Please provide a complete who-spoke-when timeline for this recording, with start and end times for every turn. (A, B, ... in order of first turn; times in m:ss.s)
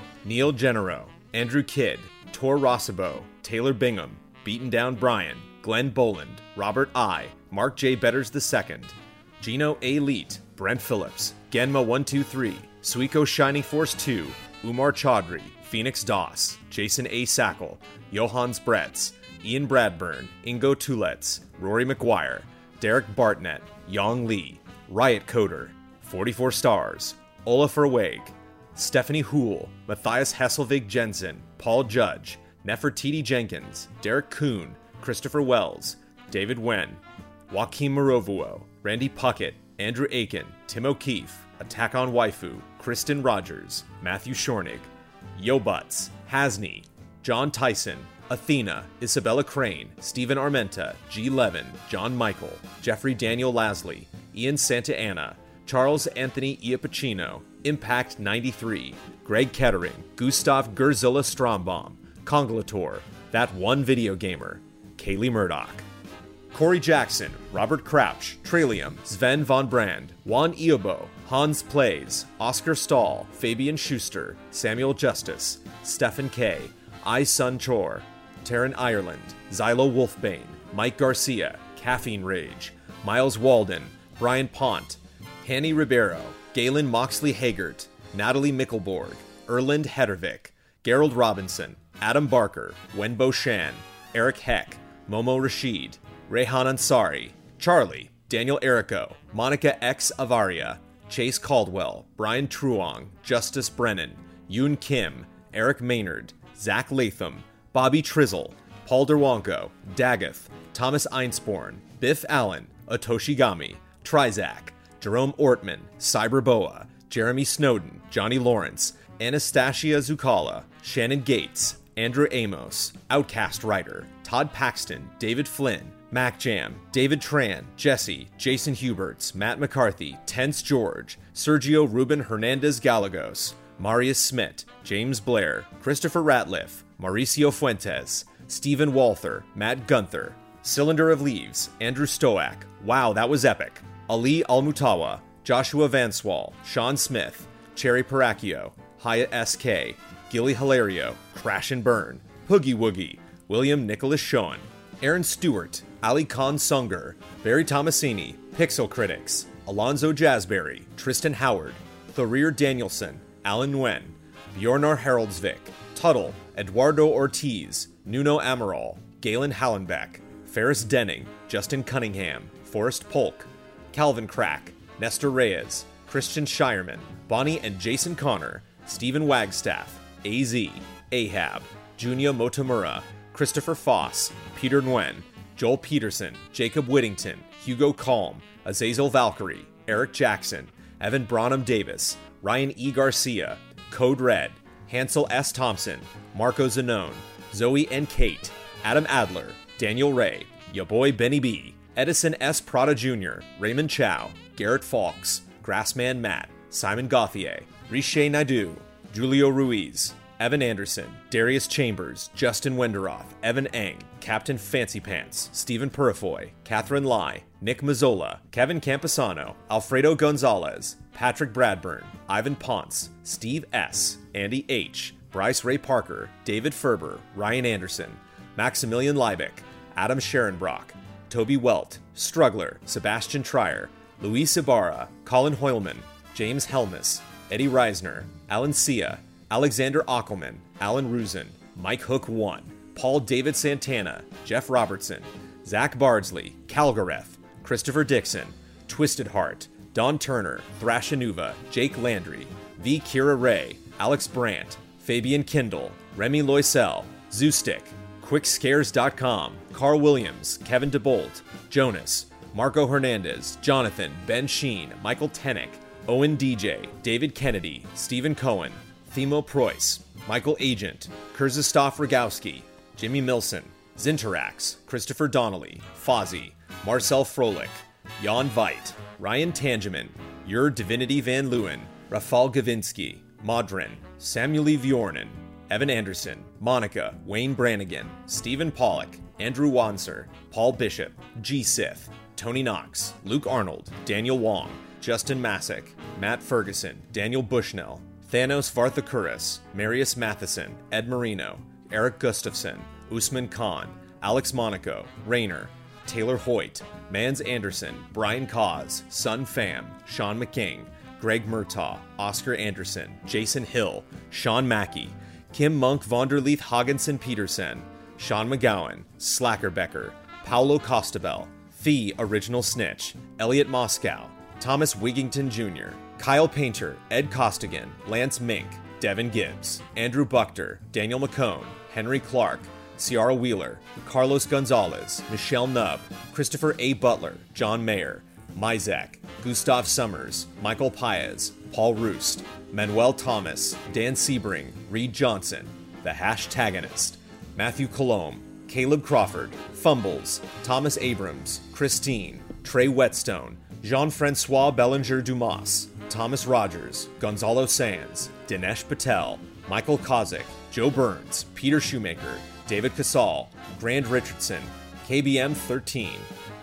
0:00.2-1:05.8 A
1:06.5-6:06.3 A